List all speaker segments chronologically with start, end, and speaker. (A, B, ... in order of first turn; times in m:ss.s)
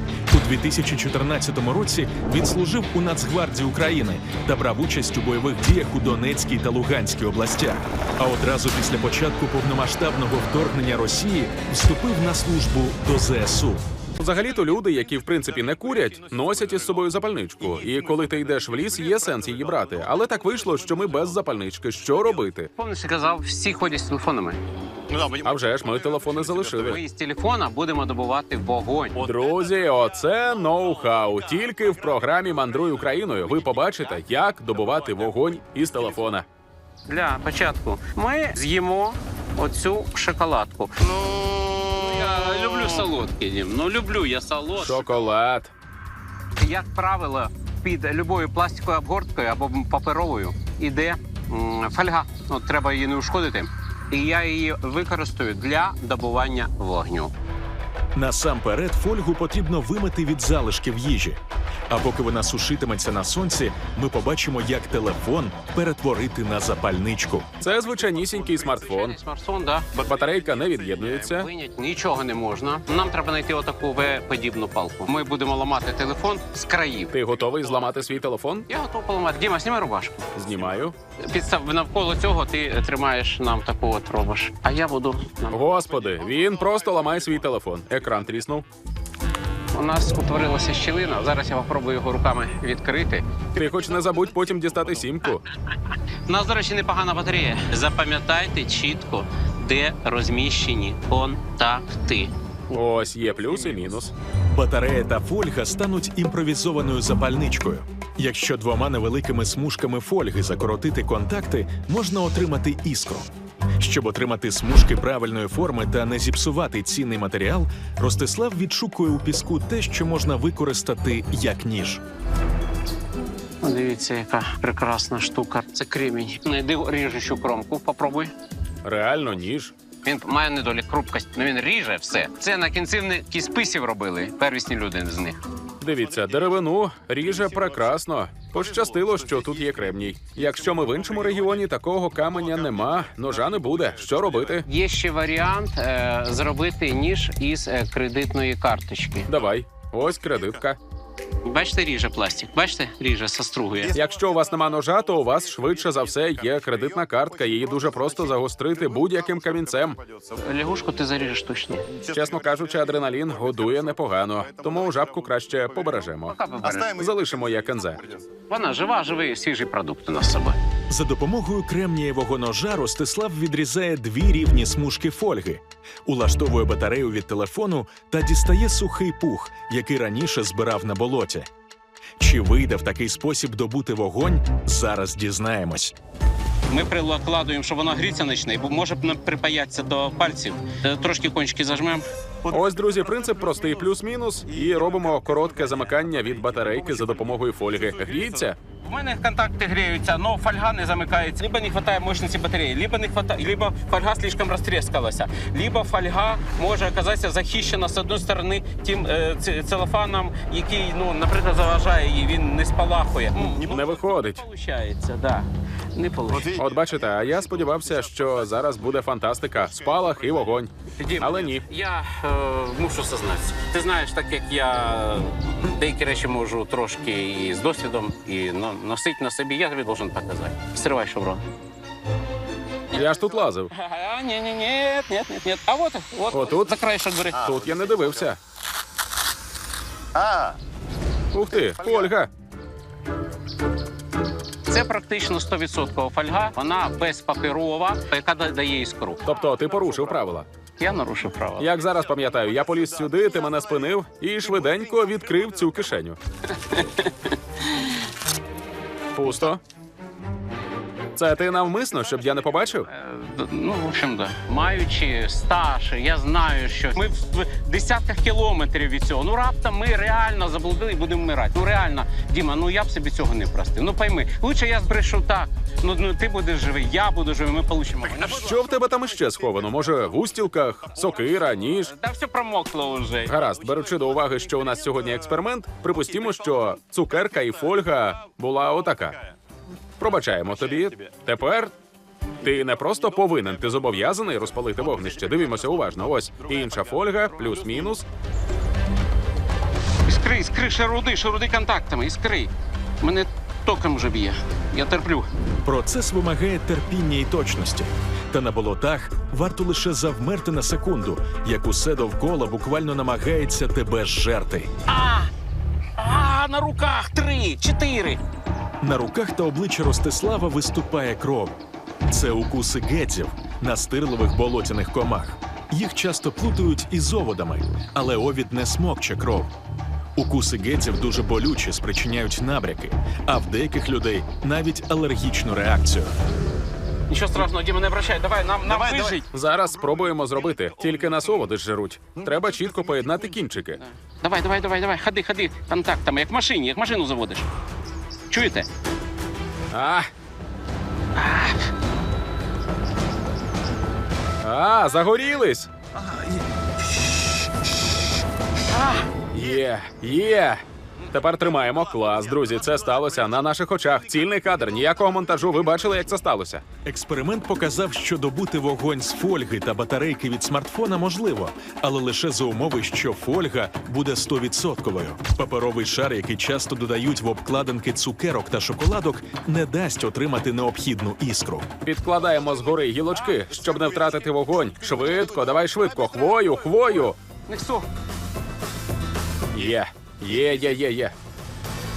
0:00.3-0:13.8 A
0:14.2-0:22.7 B
0:18.7-0:19.9 C
0:22.8-0:24.6 D
0:25.1-0:25.5 C
0:25.3-0:27.0 B
0:26.3-0:26.8 C
0:26.8-0:29.3 D
0:29.2-0:36.5 B
0:37.1-0:41.2 D
0:41.8-0:45.1 D
0:44.8-0:45.7 B
0:46.6-0:57.3 D
0:58.2-1:01.4 A
1:01.9-1:07.5 A
1:07.6-1:09.2 B
1:08.8-1:10.0 D
1:10.0-1:11.5 B
1:11.1-1:17.1 D
1:17.1-1:18.7 B
1:18.7-1:20.3 D
1:20.4-1:21.0 B
1:21.2-1:25.6 D
1:25.5-1:28.7 B
1:29.7-1:33.3 D
1:33.6-1:35.4 B
1:36.3-1:42.3 D
1:42.7-1:44.1 B
1:44.5-2:02.0 A
2:03.6-2:08.3 D
2:08.8-2:09.7 B
2:10.0-2:15.4 D
2:15.8-2:24.7 B
2:18.6-2:19.2 C
2:24.7-2:29.3 D
2:29.3-2:30.8 B
2:31.4-2:34.0 D
2:33.9-2:40.0 B
2:36.7-2:38.1 C
2:39.4-2:39.6 C
2:40.4-2:41.9 D
2:41.9-2:43.8 C
2:42.1-2:48.0 B
2:44.6-2:45.1 C
2:46.3-2:47.0 D
2:46.6-2:48.2 C
2:48.5-2:50.6 D
2:50.9-3:01.5 A
3:02.2-3:05.9 A
3:06.7-3:12.0 D
3:12.5-3:18.6 B
3:13.2-3:13.7 C
3:14.7-3:17.1 C
3:18.8-3:36.6 D
3:33.5-3:34.4 B
3:36.5-3:41.6 B
3:41.0-3:51.4 D
3:52.9-3:53.7 B
3:53.7-3:57.5 D
3:56.3-3:56.7 B
3:57.3-3:58.4 B
3:57.5-3:58.0 C
4:00.2-4:00.6 C
4:01.3-4:02.3 B
4:04.7-4:09.2 D
4:09.2-4:10.5 B
4:10.8-4:11.7 D
4:11.6-4:16.2 B
4:16.5-4:18.0 D
4:19.1-4:19.6 B
4:21.2-4:22.9 B
4:22.9-4:38.5 D
4:38.2-4:41.9 B
4:41.8-4:43.3 D
4:43.3-4:49.2 B
4:50.0-4:51.7 B
4:52.4-4:58.1 B
4:54.9-4:57.0 C
4:57.5-4:57.8 C
5:00.1-5:05.3 D
5:05.6-5:14.7 A
5:14.9-5:15.3 D
5:16.0-5:18.2 D
5:18.8-5:29.5 A
5:30.2-5:36.1 A
5:37.1-5:39.3 D
5:39.3-5:43.8 B
5:43.8-5:47.5 D
5:48.3-5:48.7 D
5:49.7-5:50.1 B
5:51.2-5:51.5 D
5:54.4-5:55.7 B
5:59.3-6:00.6 B
6:01.1-6:06.6 B
6:06.8-6:21.7 A
6:21.8-6:27.2 B
6:27.5-6:27.9 D
6:29.5-6:31.1 B